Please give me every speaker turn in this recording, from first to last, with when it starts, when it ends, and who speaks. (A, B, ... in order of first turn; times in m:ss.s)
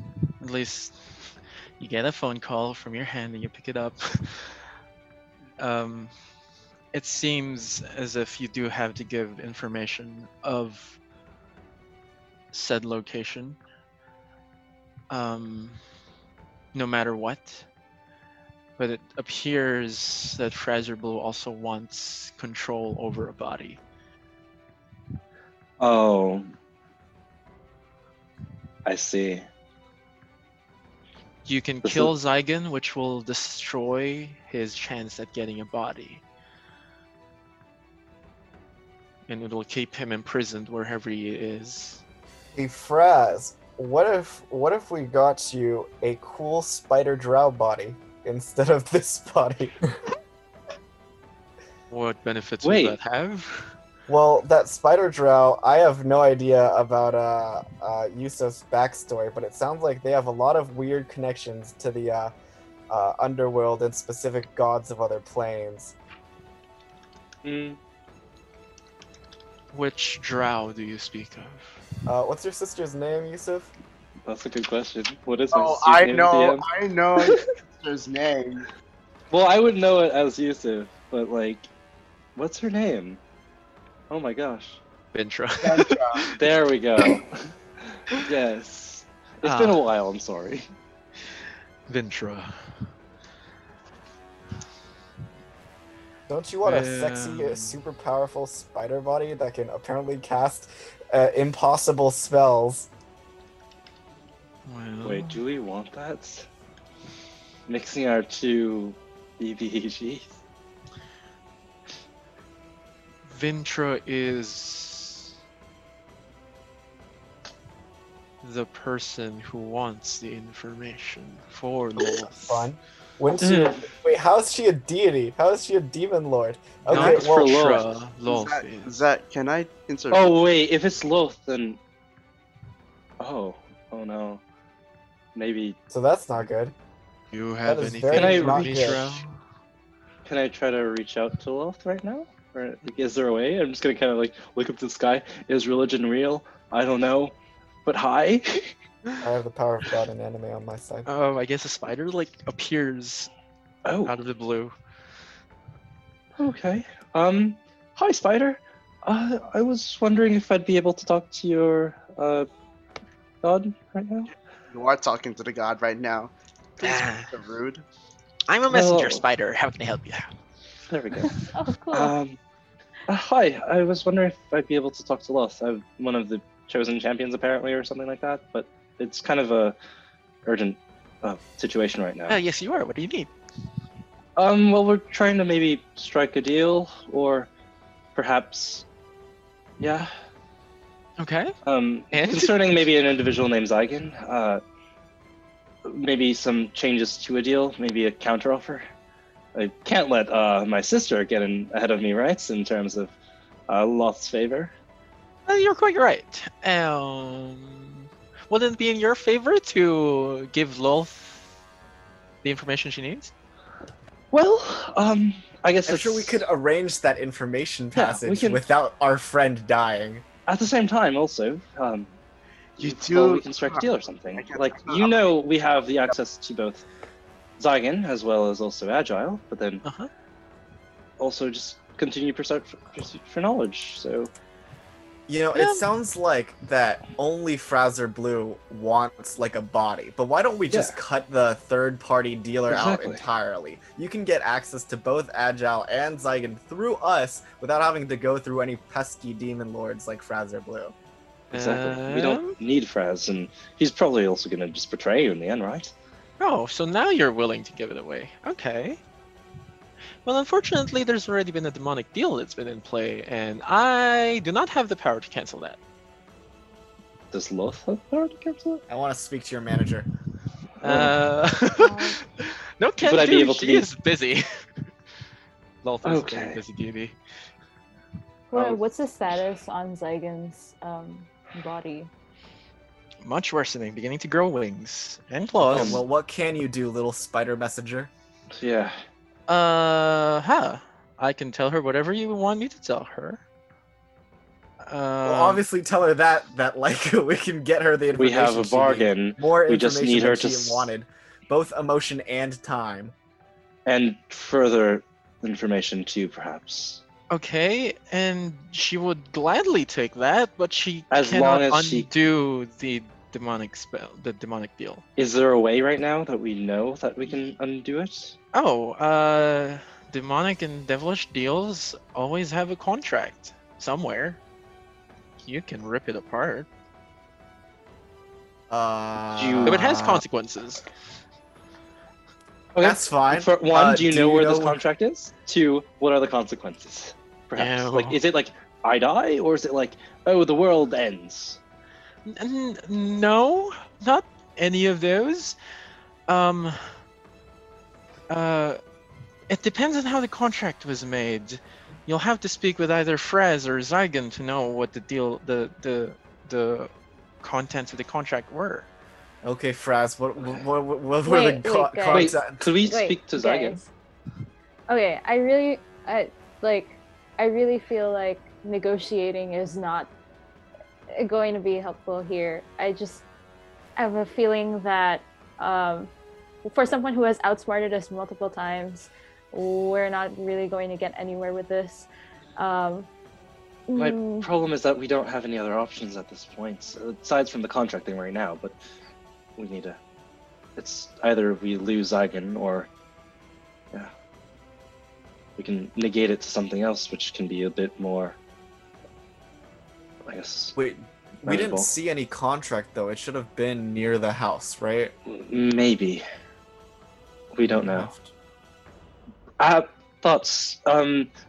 0:00.4-0:04.6 A
0:05.6-0:06.1 A
0:06.9-0:11.0 A
0:12.5-0:13.6 A
0:15.1-0:15.8 A
0:16.7-0:17.6 A
0:18.8-0:23.8 A
0:25.8-0:26.5 B
0:28.8-0:29.4 B
0:31.4-0:36.2 A
0:31.8-0:32.1 B
0:39.3-0:42.0 A
0:42.5-0:49.7 C
0:51.9-0:53.7 A
0:52.6-0:53.0 B
0:54.1-1:02.3 C
1:02.9-1:05.9 C
1:07.4-1:07.8 B
1:09.7-1:11.8 A
1:12.0-1:13.7 C
1:14.2-1:16.6 B
1:15.5-1:18.7 D
1:19.3-1:21.7 B
1:22.4-1:23.2 B
1:24.1-1:24.8 B
1:25.1-1:26.4 A
1:25.6-1:26.3 D
1:26.3-1:27.5 B
1:28.2-1:30.6 B
1:29.4-1:29.8 A
1:31.9-1:32.9 A
1:36.3-1:42.9 C
1:36.6-1:37.8 A
1:44.6-1:45.4 A
1:45.0-1:46.5 B
1:47.7-1:50.3 B
1:53.2-1:55.3 A
1:58.4-2:02.7 A
2:02.4-2:07.3 C
2:03.4-2:03.8 B
2:06.9-2:08.9 A
2:06.9-2:07.9 B
2:07.8-2:10.2 D
2:10.1-2:11.8 B
2:13.2-2:14.4 B
2:15.3-2:15.8 B
2:15.9-2:16.7 C
2:17.3-2:19.3 A
2:17.6-2:19.2 C
2:18.1-2:19.0 B
2:20.2-2:27.3 B
2:27.8-2:28.7 B
2:29.2-2:31.1 C
2:31.0-2:33.3 A
2:33.8-2:34.1 B
2:34.0-2:34.7 A
2:36.4-2:42.5 B
2:43.4-2:44.3 B
2:44.7-2:47.8 D
2:46.8-2:47.3 A
2:48.5-2:50.3 A
2:48.7-2:49.2 B
2:50.9-2:51.4 B
2:51.5-2:52.1 E
2:51.9-2:52.4 B
2:53.1-2:59.7 B
3:00.4-3:02.4 B
3:02.3-3:03.3 A
3:04.4-3:07.5 B
3:08.1-3:08.8 B
3:09.8-3:10.1 B
3:11.2-3:11.5 A
3:11.6-3:14.6 B
3:12.1-3:12.5 A
3:15.8-3:18.9 B
3:19.5-3:23.1 B
3:23.7-3:24.7 B
3:25.5-3:31.5 A
3:32.4-3:33.3 A
3:34.3-3:36.4 B
3:35.9-3:40.2 C
3:37.9-3:38.6 B
3:40.5-3:42.1 B
3:42.8-3:46.8 B
3:42.8-3:45.2 D
3:47.6-3:49.8 B
3:49.8-3:50.1 A
3:51.2-3:54.3 B
3:55.3-4:10.9 C
3:55.5-3:55.8 A
4:00.7-4:01.0 B
4:02.7-4:03.2 B
4:11.5-4:12.6 A
4:11.5-4:15.9 B
4:16.4-4:19.0 A
4:20.2-4:25.8 A
4:27.3-4:28.8 B
4:28.9-4:30.1 C
4:30.8-4:31.2 B
4:30.8-4:34.5 A
4:31.7-4:32.2 E
4:33.0-4:33.9 B
4:35.8-4:37.1 A
4:36.0-4:36.6 B
4:38.5-4:42.1 E
4:38.5-4:38.8 B
4:43.2-4:46.0 A
4:45.6-4:48.1 C
4:45.7-4:46.0 B
4:48.6-4:49.0 B
4:49.5-4:53.4 A
4:54.8-4:55.6 A
4:55.2-5:03.1 C
4:58.2-5:00.9 B
5:03.8-5:07.0 B
5:07.3-5:15.0 A
5:11.1-5:12.1 B
5:15.2-5:18.4 B
5:18.5-5:24.4 A
5:25.4-5:26.7 A
5:28.7-5:30.2 C
5:29.4-5:29.9 B
5:29.6-5:30.9 A
5:32.7-5:41.6 B
5:32.8-5:34.8 C
5:37.6-5:38.2 A
5:42.2-5:45.6 A
5:46.3-5:47.0 A
5:48.3-5:48.8 A
5:49.5-5:56.9 A
5:57.4-5:58.9 A
5:59.4-6:02.7 C
6:01.2-6:03.9 E
6:02.1-6:03.8 B
6:04.9-6:10.1 E
6:11.2-6:13.2 E
6:14.0-6:16.1 E
6:16.6-6:23.1 E
6:23.9-6:24.5 E
6:24.0-6:28.8 B
6:29.6-6:30.0 B
6:30.8-6:32.9 B
6:35.6-6:38.4 B
6:40.2-6:40.8 B
6:40.8-6:45.1 C
6:41.4-6:41.9 B
6:45.3-6:46.2 B
6:47.5-6:48.1 B
6:47.6-6:48.3 C
6:49.6-6:51.3 B